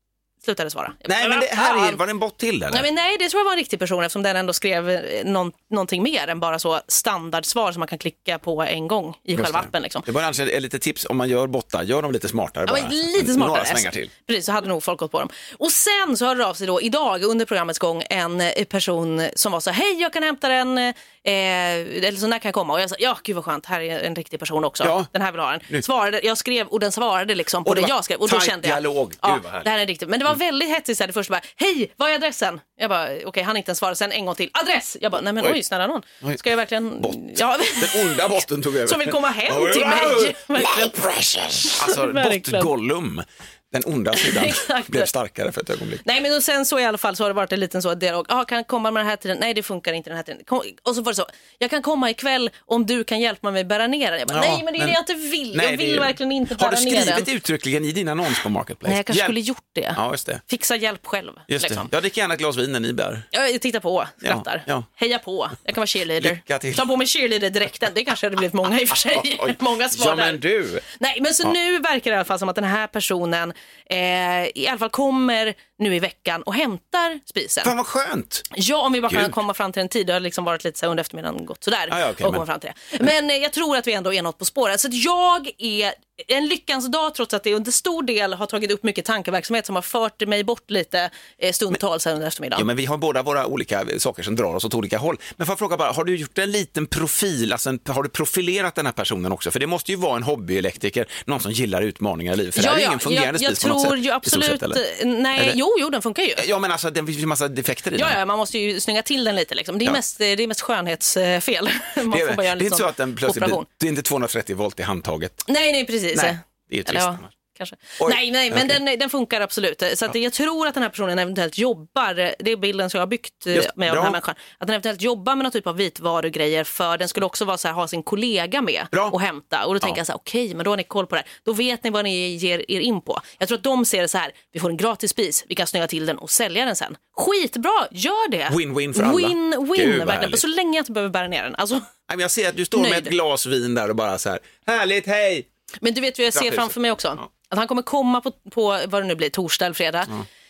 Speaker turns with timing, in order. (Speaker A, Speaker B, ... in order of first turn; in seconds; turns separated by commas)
Speaker A: 0.4-2.0, Speaker B: 1.1-2.9, Speaker A: 2.7-10.1, Speaker B: 9.4-14.1, Speaker A: 12.7-42.7, Speaker B: 24.8-25.1, Speaker B: 27.6-29.7, Speaker B: 37.0-46.0, Speaker A: 44.1-45.1, Speaker A: 46.0-57.3, Speaker B: 54.3-55.0, Speaker B: 55.5-59.3, Speaker A: 58.9-61.9, Speaker B: 60.0-60.4, Speaker B: 61.5-63.3, Speaker A: 63.3-77.7, Speaker B: 64.2-64.9, Speaker B: 66.2-66.8, Speaker B: 69.1-70.8, Speaker B: 77.6-78.5, Speaker A: 78.5-92.7, Speaker B: 81.9-82.4, Speaker B: 92.6-104.8, Speaker A: 102.5-106.5, Speaker B: 106.4-108.2, Speaker A: 107.9-113.7, Speaker B: 112.1-115.5, Speaker A: 115.5-141.9, Speaker B: 116.1-117.3, Speaker B: 118.0-118.8, Speaker B: 123.5-124.2, Speaker B: 138.5-140.4, Speaker B: 142.1-145.5, Speaker A: 142.7-143.1, Speaker A: 145.8-150.2, Speaker B: 146.3-147.2